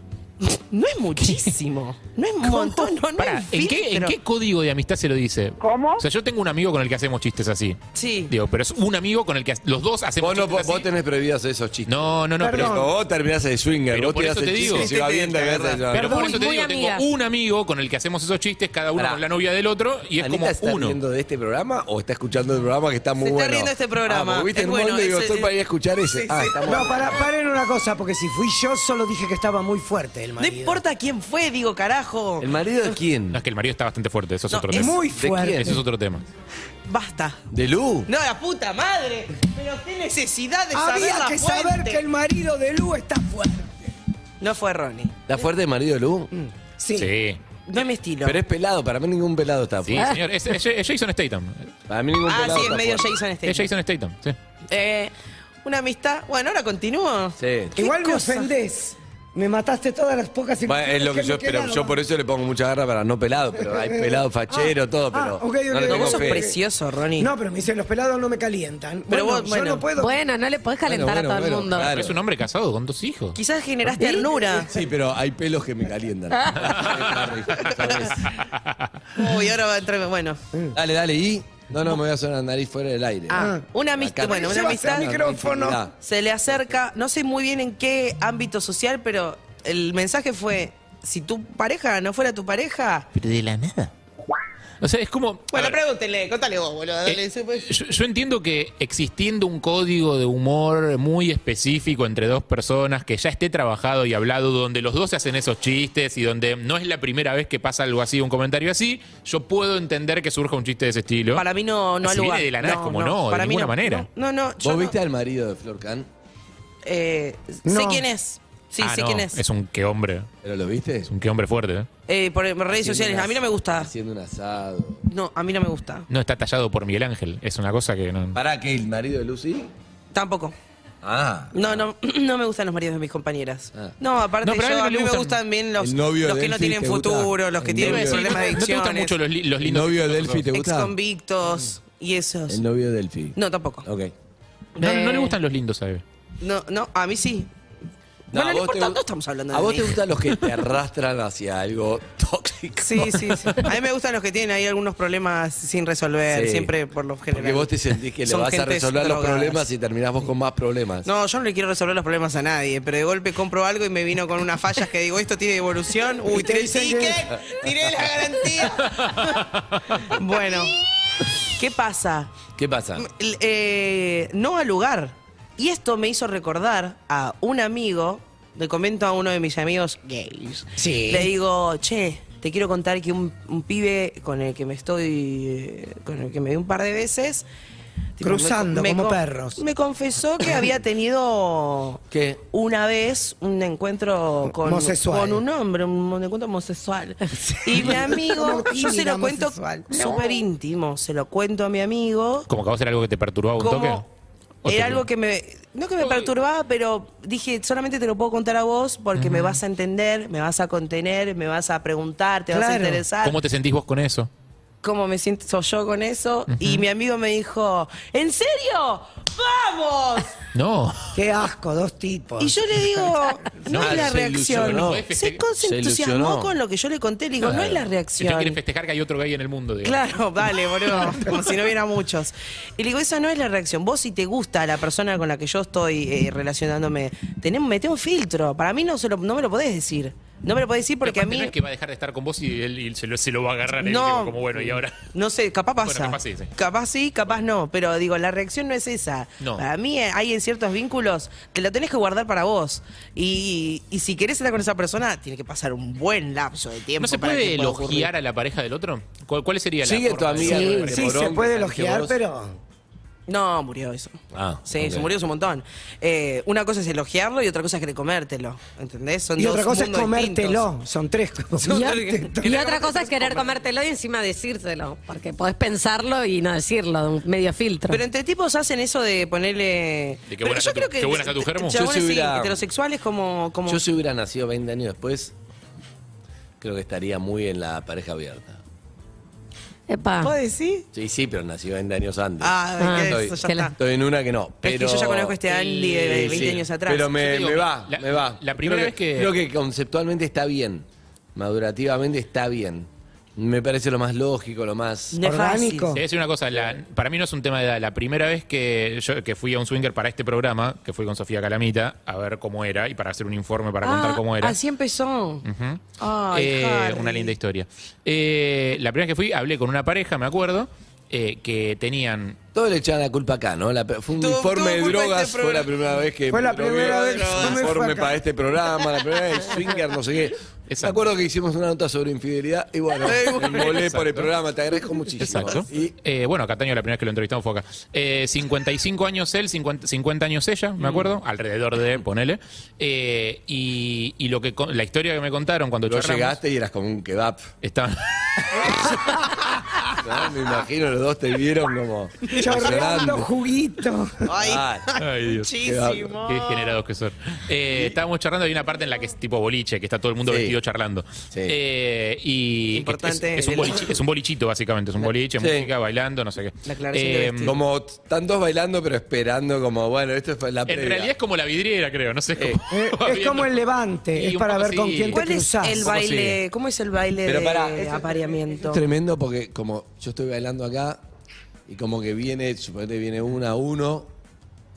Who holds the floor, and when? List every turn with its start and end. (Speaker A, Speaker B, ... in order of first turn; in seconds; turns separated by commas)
Speaker A: 0.4-4.1, Speaker B: 1.2-1.5, Speaker B: 2.4-10.9, Speaker A: 7.9-8.3, Speaker C: 10.2-16.2, Speaker B: 11.9-12.8, Speaker D: 12.4-12.9, Speaker B: 13.9-14.9, Speaker A: 14.6-15.9, Speaker B: 15.9-21.0, Speaker E: 15.9-17.0, Speaker C: 18.9-19.2, Speaker C: 20.2-27.2, Speaker A: 23.2-25.5, Speaker A: 26.1-27.0, Speaker D: 26.6-30.8, Speaker A: 30.4-32.5, Speaker C: 32.4-33.4, Speaker B: 33.3-35.0, Speaker A: 34.5-34.9, Speaker D: 34.7-35.8, Speaker C: 35.1-35.8, Speaker B: 35.5-36.2, Speaker A: 36.9-37.4, Speaker C: 37.5-38.1, Speaker A: 38.1-42.0, Speaker D: 40.7-43.9, Speaker A: 44.4-45.2, Speaker C: 45.3-46.3, Speaker D: 46.3-47.1, Speaker B: 47.0-47.4, Speaker A: 47.7-48.4, Speaker C: 48.2-50.1, Speaker B: 49.8-51.7, Speaker C: 51.9-53.2, Speaker A: 52.3-53.7, Speaker B: 53.4-54.4, Speaker A: 54.7-55.1, Speaker A: 55.6-58.5, Speaker C: 57.4-57.8, Speaker D: 57.7-62.0, Speaker C: 60.6-66.5, Speaker D: 63.6-66.5, Speaker A: 65.9-67.3, Speaker D: 67.2-70.2, Speaker A: 69.1-69.8, Speaker E: 70.0-71.9, Speaker C: 70.8-72.2, Speaker B: 71.8-73.4, Speaker A: 73.3-74.7, Speaker D: 74.0-74.4, Speaker C: 74.6-78.3, Speaker B: 76.6-77.0, Speaker A: 77.5-78.3, Speaker B: 78.2-78.9, Speaker A: 79.1-80.4, Speaker C: 80.7-85.9, Speaker A: 83.3-85.2, Speaker D: 83.3-83.7, Speaker D: 84.2-85.8, Speaker A: 85.9-93.1, Speaker B: 93.1-93.9, Speaker B: 94.8-95.8, Speaker A: 95.5-97.7, Speaker B: 97.0-111.4, Speaker A: 111.3-114.9, Speaker B: 112.0-114.1, Speaker C: 114.6-116.1, Speaker A: 116.8-119.4, Speaker D: 117.7-118.0, Speaker B: 118.8-120.3, Speaker C: 120.4-121.1, Speaker B: 121.0-121.9, Speaker A: 122.1-123.9, Speaker C: 122.7-125.0, Speaker A: 125.1-126.1, Speaker B: 126.1-128.4, Speaker C: 128.3-129.7, Speaker A: 130.1-130.5, Speaker C: 131.0-131.9, Speaker A: 131.5-139.1, Speaker B: 134.4-135.4, Speaker C: 135.8-138.5, Speaker B: 137.7-140.4, Speaker C: 139.6-140.9, Speaker A: 140.5-142.6, Speaker C: 142.5-144.1, Speaker A: 143.3-143.8, Speaker B: 144.8-146.0, Speaker A: 144.8-145.3, Speaker A: 146.4-147.5, Speaker C: 148.3-153.5, Speaker A: 148.3-150.0, Speaker A: 152.8-157.7, Speaker C: 156.3-156.7, Speaker C: 157.3-161.1, Speaker A: 158.2-159.7, Speaker A: 161.0-170.8, Speaker D: 166.3-167.3, Speaker A: 171.5-172.3, Speaker C: 172.6-173.1, Speaker A: 173.0-187.4, Speaker D: 180.8-181.3, Speaker A: 188.2-202.5, Speaker D: 188.2-189.6, Speaker C: 192.1-192.4, Speaker D: 194.5-195.4, Speaker D: 197.3-200.3, Speaker B: 202.5-204.0, Speaker A: 203.6-204.1, Speaker B: 204.6-205.0, Speaker A: 204.7-213.4, Speaker B: 206.0-206.3, Speaker B: 209.1-209.6, Speaker D: 212.5-213.1, Speaker B: 213.2-214.3, Speaker A: 214.8-220.3, Speaker B: 216.5-216.8, Speaker B: 220.5-221.1, Speaker D: 221.1-222.6, Speaker A: 222.4-228.6, Speaker B: 223.7-225.4, Speaker C: 223.7-225.1, Speaker C: 225.6-226.5, Speaker C: 227.4-227.8, Speaker B: 228.2-230.0, Speaker A: 229.8-241.5, Speaker B: 241.0-245.1, Speaker A: 243.7-258.1, Speaker B: 245.8-246.5, Speaker B: 249.4-249.6, Speaker B: 257.0-261.4, Speaker C: 259.8-262.2, Speaker E: 260.4-260.9, Speaker D: 260.9-262.5, Speaker A: 263.3-270.6, Speaker C: 264.3-265.1, Speaker D: 269.4-272.6, Speaker A: 271.6-273.6, Speaker E: 271.7-278.0, Speaker A: 277.9-283.8, Speaker B: 280.3-281.8, Speaker C: 281.7-282.6, Speaker C: 283.6-285.3, Speaker C: 286.6-288.6, Speaker E: 289.9-290.3, Speaker A: 290.2-290.9, Speaker C: 290.9-305.2, Speaker A: 292.4-293.8, Speaker E: 292.8-293.7, Speaker A: 294.6-297.1, Speaker B: 296.2-296.6, Speaker B: 297.1-299.3, Speaker A: 305.1-305.9, Speaker D: 305.2-306.0, Speaker B: 305.9-314.6, Speaker A: 313.8-315.4, Speaker B: 315.4-315.8, Speaker A: 316.0-317.3, Speaker B: 316.3-322.4, Speaker C: 322.5-335.9, Speaker A: 324.2-325.7, Speaker D: 326.3-328.1, Speaker A: 326.9-327.6, Speaker B: 330.7-331.0, Speaker A: 333.0-333.8, Speaker B: 333.2-334.3, Speaker B: 335.2-346.4, Speaker C: 340.8-341.1, Speaker C: 345.9-347.5, Speaker B: 347.6-349.2, Speaker C: 350.0-353.3, Speaker D: 352.4-354.3, Speaker A: 354.3-356.8, Speaker C: 354.4-354.9, Speaker B: 355.0-355.5, Speaker C: 355.6-356.2, Speaker B: 356.2-367.5, Speaker C: 357.7-358.0, Speaker C: 360.3-360.6, Speaker C: 361.3-361.6, Speaker A: 362.7-364.0, Speaker C: 365.4-365.7, Speaker A: 366.7-367.6, Speaker C: 367.4-371.1, Speaker B: 370.7-373.6, Speaker D: 372.7-375.8, Speaker B: 374.1-375.2, Speaker A: 375.1-378.8, Speaker B: 375.8-376.4, Speaker C: 377.2-378.1, Speaker C: 378.6-381.0, Speaker C: 381.7-384.1